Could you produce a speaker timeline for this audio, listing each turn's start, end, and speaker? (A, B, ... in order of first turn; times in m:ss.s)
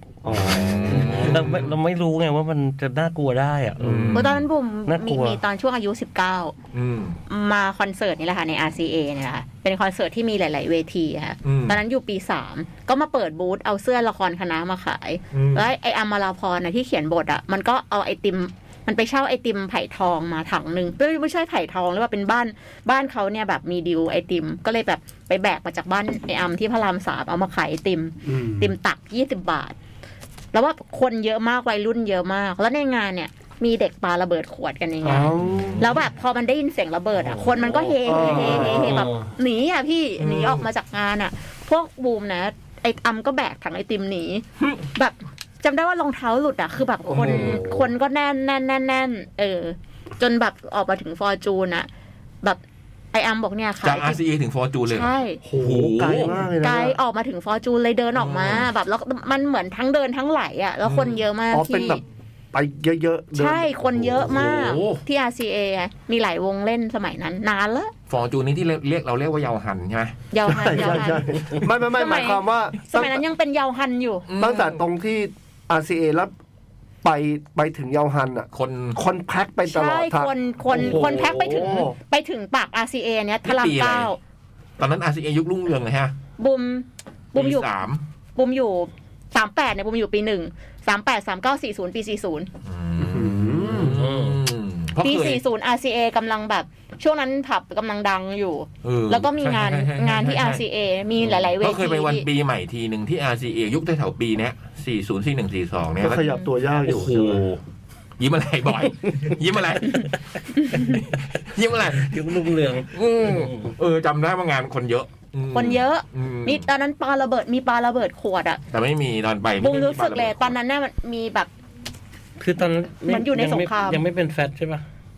0:00.2-0:01.6 A
0:00.3-0:01.7 B
0:00.9-0:04.3 C
0:03.8-0:04.4 B
0:03.8-0:04.2 A
0:04.2-0:06.6 D
0:04.9-0:05.4 C
0:06.7-0:07.2 B
0:07.3-0:29.8 D
0:11.4-0:11.8 B
0:15.3-0:15.7 B
0:28.2-0:28.7 A
0:30.5-0:51.9 D
0:35.0-0:36.0 A
0:35.0-0:36.0 B
0:37.3-0:38.8 B
0:38.0-0:39.0 A
0:38.7-0:39.3 C
0:40.2-0:40.6 B
0:47.1-0:47.9 A
0:47.1-0:47.7 B
0:53.1-0:54.2 D
0:53.8-0:56.4 B
0:54.9-0:55.4 D
0:55.4-0:57.0 A
0:56.6-1:02.0 D
0:58.2-0:58.7 B
1:00.8-1:01.2 B
1:01.5-1:04.5 A
1:03.3-1:07.9 D
1:04.3-1:05.0 B
1:08.1-1:11.2 B
1:10.3-1:11.4 D
1:10.5-1:13.2 A
1:11.9-1:14.3 D
1:14.3-1:14.8 B
1:14.4-1:16.3 A
1:17.0-1:22.0 A
1:18.5-1:19.0 B
1:19.6-1:24.2 D
1:23.4-1:24.1 B
1:24.8-1:26.1 B
1:26.4-1:27.7 D
1:27.4-1:28.0 B
1:28.4-1:32.5 D
1:32.6-1:35.4 B
1:33.0-1:34.0 A
1:33.8-1:34.4 C
1:35.0-1:42.3 D
1:38.8-1:40.6 B
1:41.2-1:46.3 B
1:46.0-1:47.4 A
1:46.2-1:46.5 D
1:46.8-1:47.6 B
1:48.2-1:52.2 B
1:51.9-1:53.7 C
1:52.9-1:56.7 B
1:55.5-1:58.6 D
1:58.7-2:00.6 B
1:59.6-2:01.5 D
2:02.4-2:04.8 C
2:03.1-2:04.0 D